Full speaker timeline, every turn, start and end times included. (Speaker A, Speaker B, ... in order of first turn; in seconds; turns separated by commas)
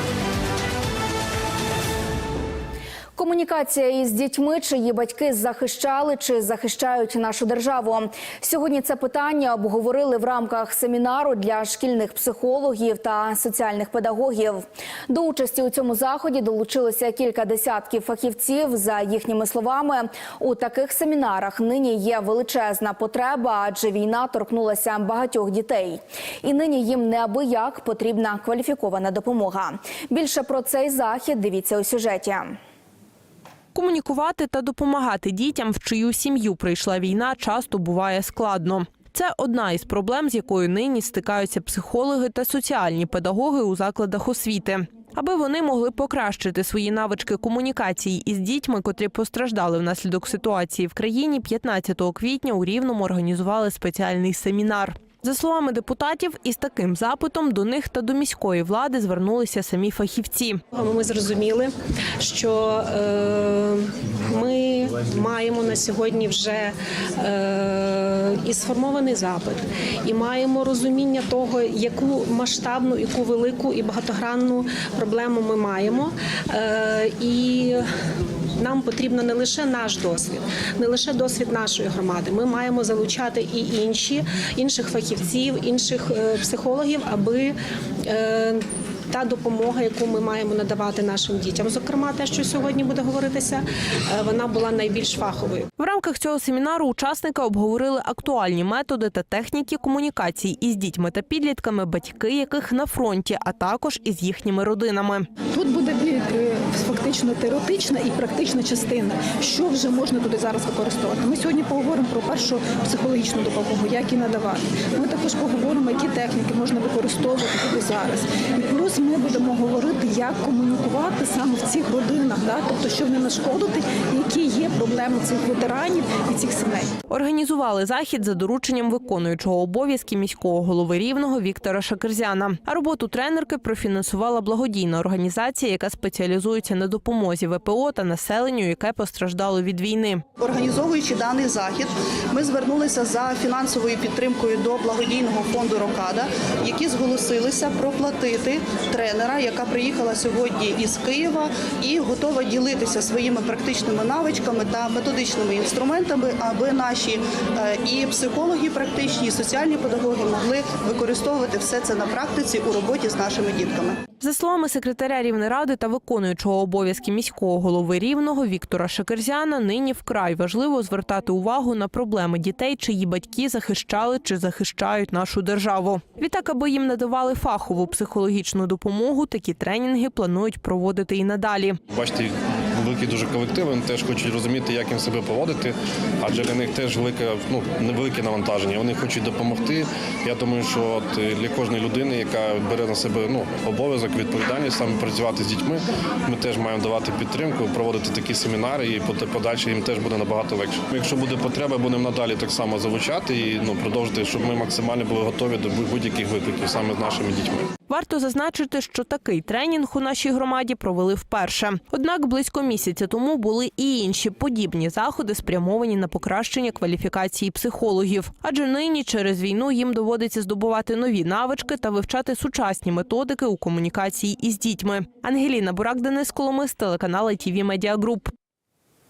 Speaker A: 3.2-32.6, Speaker B: 33.8-60.6, Speaker C: 60.7-77.9, Speaker C: 78.6-95.7, Speaker B: 95.8-105.3, Speaker D: 105.5-126.9, Speaker B: 127.1-140.2, Speaker E: 140.4-164.0, Speaker B: 164.2-181.8, Speaker F: 181.9-207.7, Speaker B: 207.9-228.3